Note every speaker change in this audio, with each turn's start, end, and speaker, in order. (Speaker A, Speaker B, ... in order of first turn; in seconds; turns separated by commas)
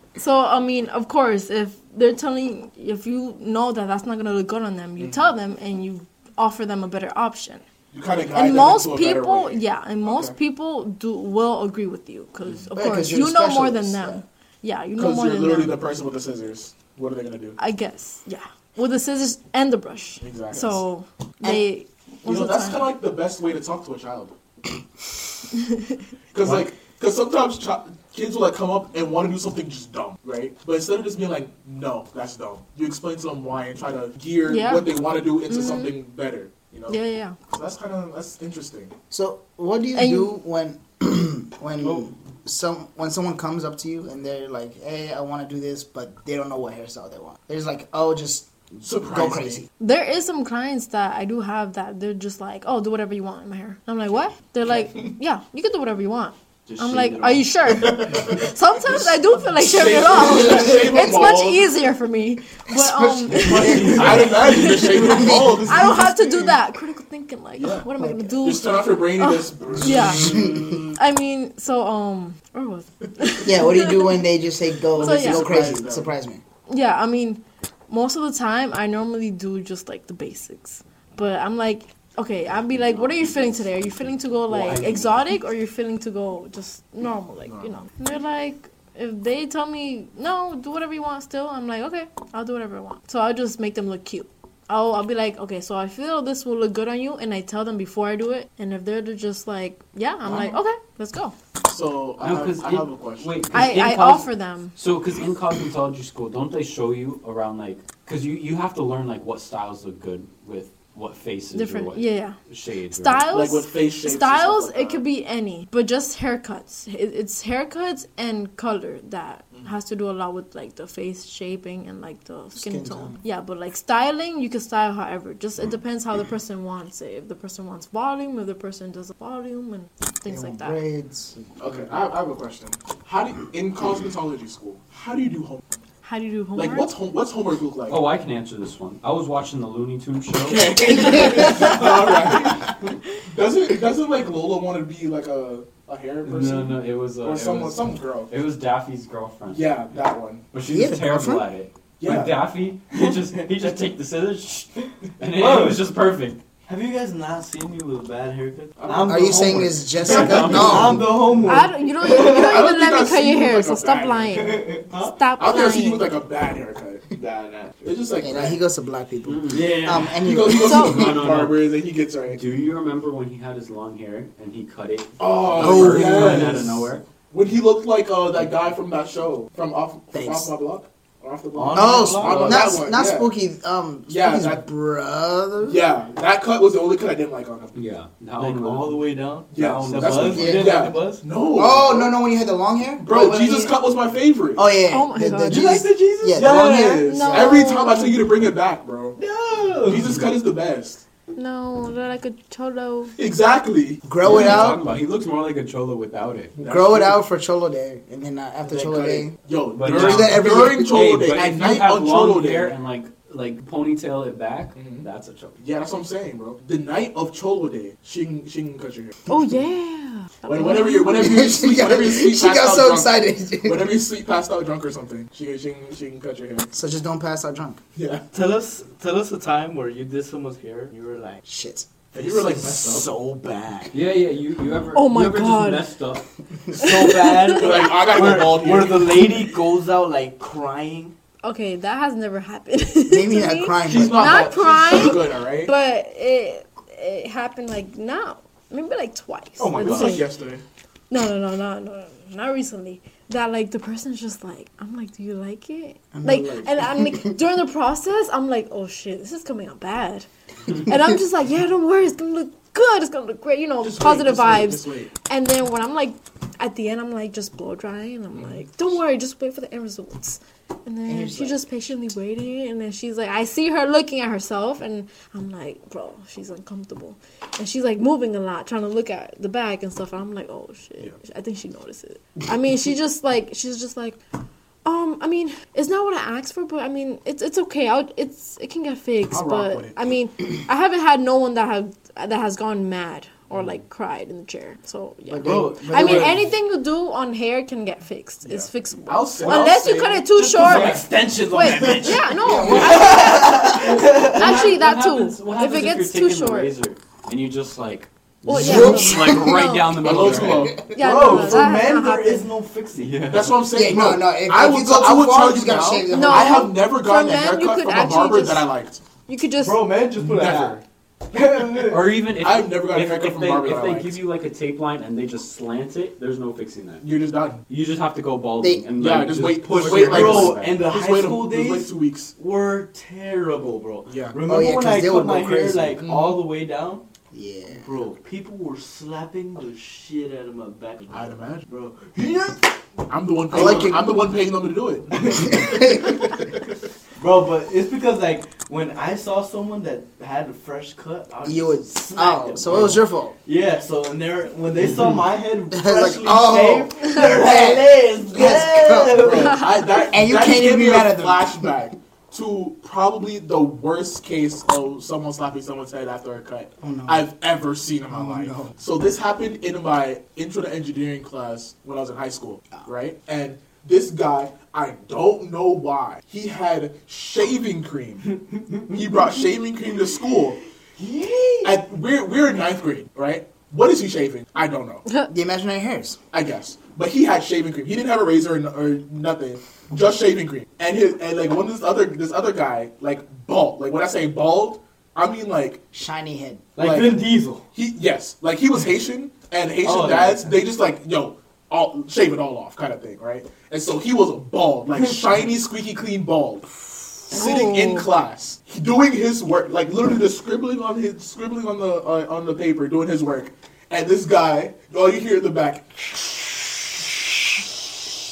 Speaker A: 0.1-7.6, Speaker B: 7.9-10.3, Speaker A: 8.3-15.8, Speaker C: 12.7-14.2, Speaker B: 15.0-17.6, Speaker A: 17.6-22.9, Speaker B: 20.2-20.8, Speaker B: 22.2-24.3, Speaker A: 25.5-26.0, Speaker B: 26.3-37.0, Speaker A: 34.5-34.9, Speaker A: 35.5-36.0, Speaker A: 36.9-37.4, Speaker B: 37.5-38.9, Speaker C: 39.1-49.7, Speaker A: 39.9-40.3, Speaker B: 48.8-49.6, Speaker A: 49.8-70.4, Speaker D: 56.6-57.6, Speaker B: 57.7-61.7, Speaker C: 62.7-65.7, Speaker B: 63.5-66.5, Speaker D: 63.8-64.2, Speaker B: 67.6-67.9, Speaker C: 68.0-68.4, Speaker B: 68.4-70.5, Speaker C: 69.9-70.9, Speaker A: 70.9-74.2, Speaker C: 73.4-76.4, Speaker B: 74.9-76.1, Speaker A: 75.0-75.5, Speaker A: 76.7-101.3, Speaker E: 84.5-85.1, Speaker B: 87.4-87.8, Speaker B: 101.7-103.5, Speaker E: 102.2-113.3, Speaker A: 103.5-104.8, Speaker A: 111.5-112.4, Speaker A: 112.9-130.8, Speaker B: 113.3-115.0, Speaker C: 122.5-123.2, Speaker C: 130.3-131.4, Speaker B: 131.6-135.6, Speaker A: 136.0-136.9, Speaker B: 136.6-138.0, Speaker E: 137.9-141.8, Speaker B: 140.3-148.3, Speaker E: 146.2-149.7, Speaker B: 149.5-150.5, Speaker E: 150.5-156.4, Speaker C: 150.6-151.5, Speaker B: 152.0-152.3, Speaker D: 152.9-153.4, Speaker D: 155.3-155.8, Speaker D: 156.7-162.6, Speaker B: 158.8-160.8, Speaker C: 159.1-161.4, Speaker E: 160.0-161.0, Speaker A: 161.4-166.1, Speaker B: 162.2-164.4, Speaker D: 164.3-165.2, Speaker B: 165.4-167.2, Speaker D: 167.1-167.8, Speaker B: 167.8-168.6, Speaker C: 168.2-170.8, Speaker E: 169.2-169.9, Speaker D: 169.5-170.2, Speaker B: 170.2-172.4, Speaker E: 170.6-171.7, Speaker A: 170.6-171.2, Speaker E: 172.3-177.0, Speaker B: 175.2-183.3, Speaker C: 175.6-176.6, Speaker C: 180.1-180.5, Speaker D: 181.5-182.8, Speaker C: 181.7-185.8, Speaker B: 184.1-184.6, Speaker B: 185.7-187.8, Speaker E: 187.7-190.6, Speaker D: 188.3-191.2, Speaker B: 189.5-192.1, Speaker C: 190.3-190.8, Speaker C: 191.5-193.7, Speaker B: 193.0-194.7, Speaker C: 194.6-197.7, Speaker A: 194.9-195.8, Speaker D: 195.4-196.8, Speaker B: 196.3-199.2, Speaker A: 196.5-198.3, Speaker D: 199.2-200.2, Speaker B: 199.8-201.0, Speaker A: 201.3-203.2, Speaker B: 203.2-204.8, Speaker C: 204.0-204.8, Speaker E: 204.2-206.5, Speaker B: 206.6-207.2, Speaker C: 206.6-211.0, Speaker B: 208.7-212.8, Speaker E: 209.7-215.6, Speaker B: 214.7-215.1, Speaker B: 215.6-219.1, Speaker A: 219.3-221.2, Speaker B: 220.5-226.7, Speaker C: 221.0-224.0, Speaker C: 226.7-227.8, Speaker B: 227.9-228.2, Speaker D: 228.3-231.4, Speaker C: 231.4-231.9, Speaker B: 232.1-233.1, Speaker D: 232.2-234.0, Speaker E: 233.9-236.3, Speaker A: 234.9-235.9, Speaker D: 236.7-241.1, Speaker A: 236.7-237.9, Speaker B: 237.5-239.2, Speaker A: 241.4-250.2, Speaker C: 243.1-244.3, Speaker B: 243.8-245.7, Speaker D: 244.1-245.1, Speaker D: 249.6-250.3, Speaker B: 249.8-250.6, Speaker A: 251.1-284.2, Speaker C: 256.1-257.4, Speaker B: 263.8-265.1, Speaker B: 268.3-268.6, Speaker C: 271.1-271.6, Speaker A: 284.8-306.7, Speaker B: 289.3-290.0, Speaker C: 295.3-296.5, Speaker D: 295.4-296.4, Speaker B: 298.4-301.0, Speaker D: 300.3-304.7, Speaker E: 300.6-301.1, Speaker C: 302.4-303.6, Speaker E: 303.8-310.7, Speaker A: 308.4-310.3, Speaker C: 308.4-309.6, Speaker B: 310.0-310.9, Speaker C: 310.3-311.4, Speaker A: 310.9-312.5, Speaker D: 310.9-313.7, Speaker B: 313.2-319.0, Speaker C: 313.7-316.6, Speaker A: 316.1-318.7, Speaker A: 319.3-319.8, Speaker D: 319.6-320.8, Speaker B: 320.1-320.8, Speaker D: 321.3-322.2, Speaker E: 321.8-327.1, Speaker B: 322.4-324.2, Speaker B: 327.0-327.6, Speaker E: 327.7-330.8, Speaker C: 328.6-328.9, Speaker B: 329.0-332.3, Speaker D: 329.7-337.0, Speaker B: 334.1-334.4, Speaker C: 334.4-336.0, Speaker B: 336.0-336.4, Speaker C: 337.3-337.9, Speaker D: 337.7-342.8, Speaker B: 341.1-341.7, Speaker B: 343.1-346.7, Speaker D: 343.5-343.9, Speaker C: 343.5-344.1, Speaker D: 345.1-346.0, Speaker C: 345.5-346.2, Speaker D: 347.2-359.7, Speaker C: 351.4-353.4, Speaker C: 355.7-359.4, Speaker B: 359.1-378.4, Speaker C: 360.0-361.8, Speaker C: 366.8-367.2, Speaker C: 368.1-368.7, Speaker D: 378.5-378.9, Speaker B: 378.9-380.6, Speaker D: 381.0-381.8, Speaker B: 381.6-385.0, Speaker A: 385.0-385.3, Speaker C: 385.3-386.2, Speaker B: 386.3-395.8, Speaker C: 395.9-396.6, Speaker D: 396.7-397.6, Speaker B: 396.8-416.9, Speaker D: 399.8-400.5, Speaker A: 407.3-408.1